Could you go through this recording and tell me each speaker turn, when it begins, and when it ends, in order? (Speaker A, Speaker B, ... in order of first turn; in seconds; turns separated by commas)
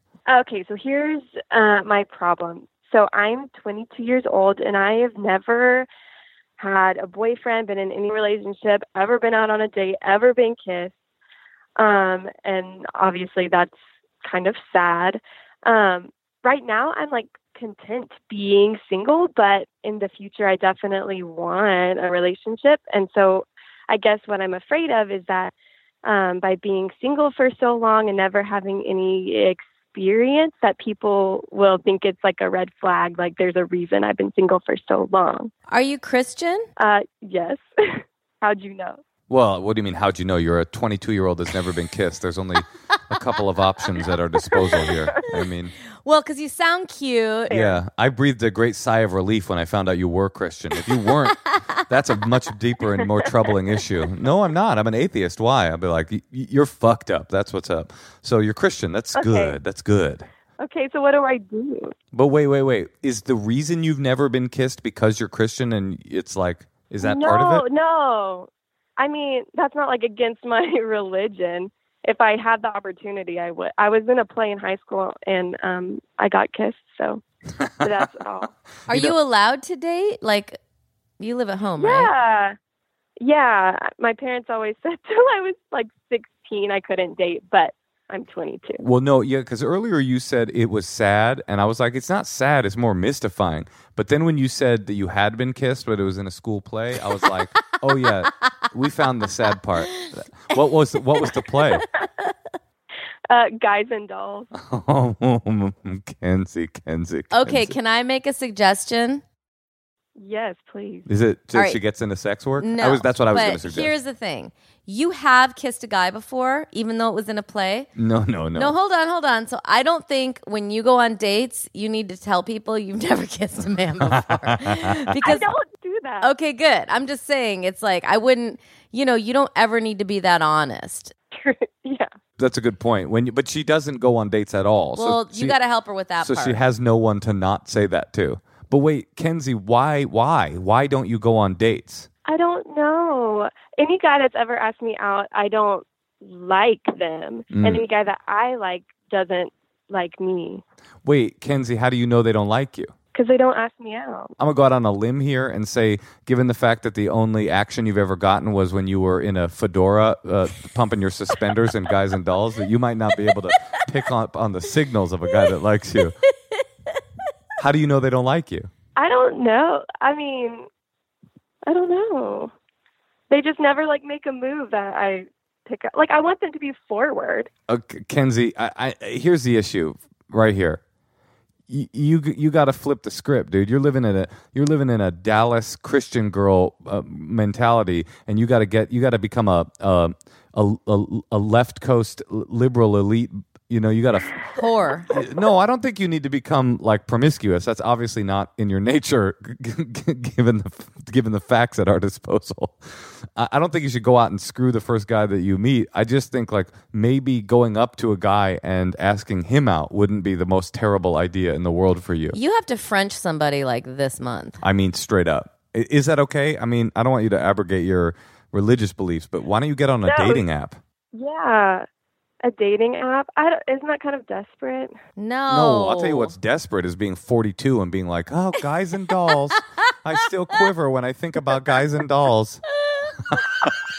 Speaker A: 0.3-5.9, Speaker A: 6.6-10.9, Speaker A: 11.8-13.7, Speaker A: 14.2-25.5, Speaker A: 26.0-35.5, Speaker B: 35.7-36.6, Speaker A: 36.8-39.0, Speaker C: 39.3-45.7, Speaker B: 44.5-44.8, Speaker B: 46.0-47.6, Speaker C: 47.5-60.3, Speaker A: 47.5-47.8, Speaker A: 59.1-59.5, Speaker A: 60.6-61.9, Speaker C: 62.1-67.6, Speaker A: 67.0-77.2, Speaker C: 77.5-79.1, Speaker A: 77.8-78.5, Speaker B: 78.9-80.6, Speaker B: 81.2-82.1, Speaker A: 81.8-82.5, Speaker A: 83.2-88.8, Speaker C: 88.8-101.8, Speaker B: 98.4-98.7, Speaker B: 99.9-100.1, Speaker B: 102.0-102.3, Speaker A: 103.3-104.5, Speaker C: 104.5-107.8, Speaker B: 107.3-109.2, Speaker A: 110.2-111.0, Speaker C: 111.1-113.9, Speaker B: 111.5-111.8, Speaker B: 112.6-117.9, Speaker C: 118.0-118.7, Speaker B: 118.5-125.5, Speaker C: 124.0-125.0, Speaker A: 125.2-126.3, Speaker B: 126.2-131.1, Speaker A: 131.3-132.1, Speaker C: 132.4-135.6, Speaker B: 135.0-136.6, Speaker C: 136.2-142.1, Speaker A: 142.2-150.6, Speaker C: 147.5-147.8, Speaker C: 151.0-152.9, Speaker A: 153.1-154.3, Speaker C: 154.4-166.1, Speaker B: 166.2-166.9, Speaker C: 167.6-168.7, Speaker A: 169.0-170.7, Speaker A: 171.7-172.5, Speaker A: 173.3-177.5, Speaker C: 177.7-180.8, Speaker C: 181.7-194.3, Speaker B: 194.5-195.1, Speaker C: 195.1-212.3, Speaker B: 212.3-214.6, Speaker C: 214.6-220.8, Speaker A: 220.1-220.4, Speaker A: 221.1-221.8, Speaker A: 222.4-224.9, Speaker B: 225.2-226.3, Speaker C: 225.5-232.6, Speaker B: 229.1-229.6, Speaker B: 232.8-233.7, Speaker C: 233.3-233.7